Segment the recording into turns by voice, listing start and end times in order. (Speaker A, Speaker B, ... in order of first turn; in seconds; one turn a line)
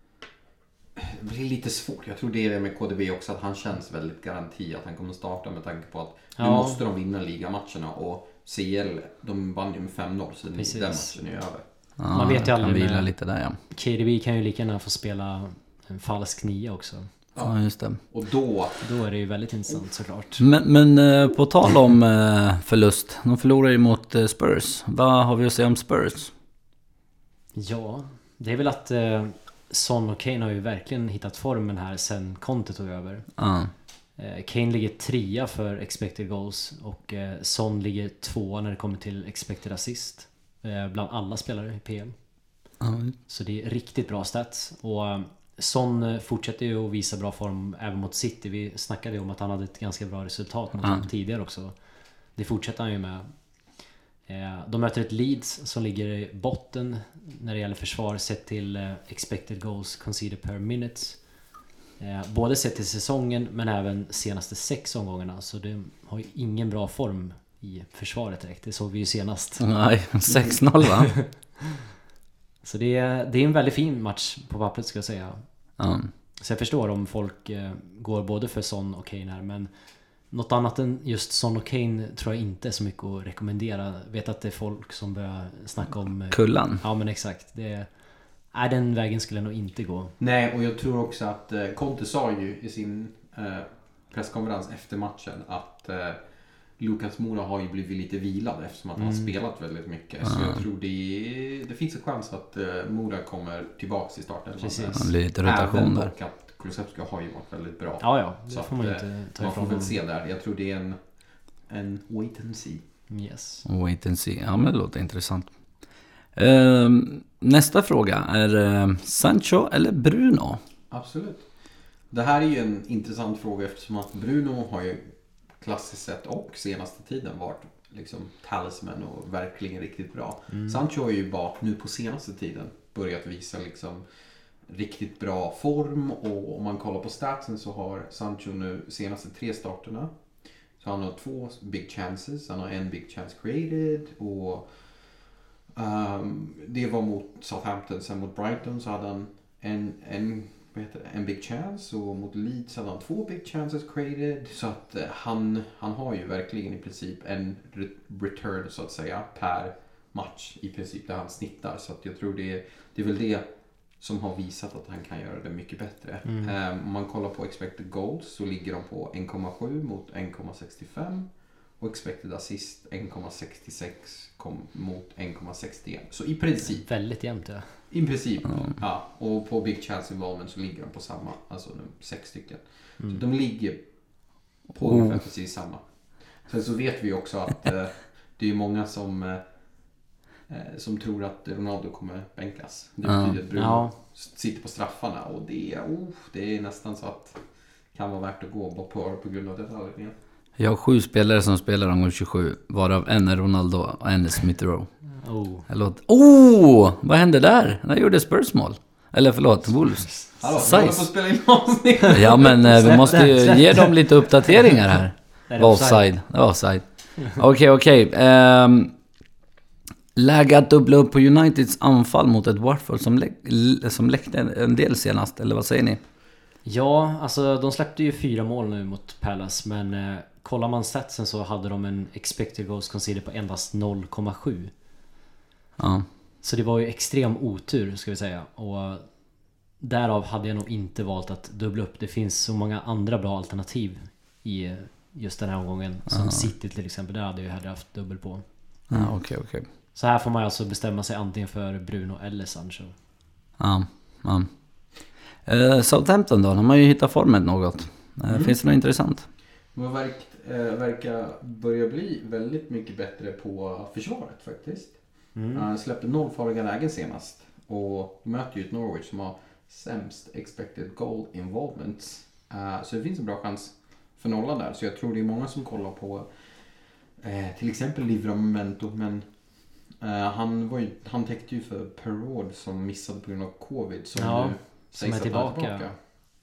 Speaker A: 0.9-12.1
Speaker B: 6.3-6.8
Speaker B: 10.5-17.1
Speaker C: 12.0-13.6
Speaker A: 17.3-18.9
Speaker C: 17.4-18.0
Speaker B: 18.8-20.5
Speaker C: 20.4-26.3
Speaker B: 27.5-42.4
Speaker C: 33.4-33.7
Speaker C: 42.8-43.2
Speaker B: 43.2-71.5
Speaker C: 69.6-71.3
Speaker B: 72.6-90.2
Speaker C: 75.8-76.1
Speaker C: 86.3-86.8
Speaker A: 90.2-112.8
Speaker B: 99.0-99.3
Speaker C: 100.2-100.6
Speaker B: 104.6-105.0
Speaker C: 104.9-106.1
Speaker B: 108.0-109.9
Speaker B: 113.1-113.6
Speaker C: 113.6-120.6
Speaker A: 120.9-145.2
Speaker B: 130.5-130.8
Speaker A: 145.7-200.1
Speaker B: 166.2-166.5
Speaker B: 176.6-177.8
Speaker C: 184.8-185.2
Speaker C: 193.1-193.4
Speaker B: 193.5-193.9
Speaker C: 200.6-211.1
Speaker B: 205.2-205.7
Speaker B: 210.0-210.3
Speaker A: 210.4-213.5
Speaker C: 212.1-219.0
Speaker B: 212.5-214.7
Speaker B: 215.4-216.2
Speaker C: 220.1-226.0
Speaker B: 226.6-234.7
Speaker C: 235.8-236.1
Speaker B: 236.4-248.9
Speaker C: 246.1-246.5
Speaker C: 248.9-249.7
Speaker B: 249.9-253.0
Speaker C: 253.6-259.3
Speaker A: 258.3-258.6
Speaker A: 259.7-286.0
Speaker B: 265.3-265.6
Speaker B: 284.1-285.9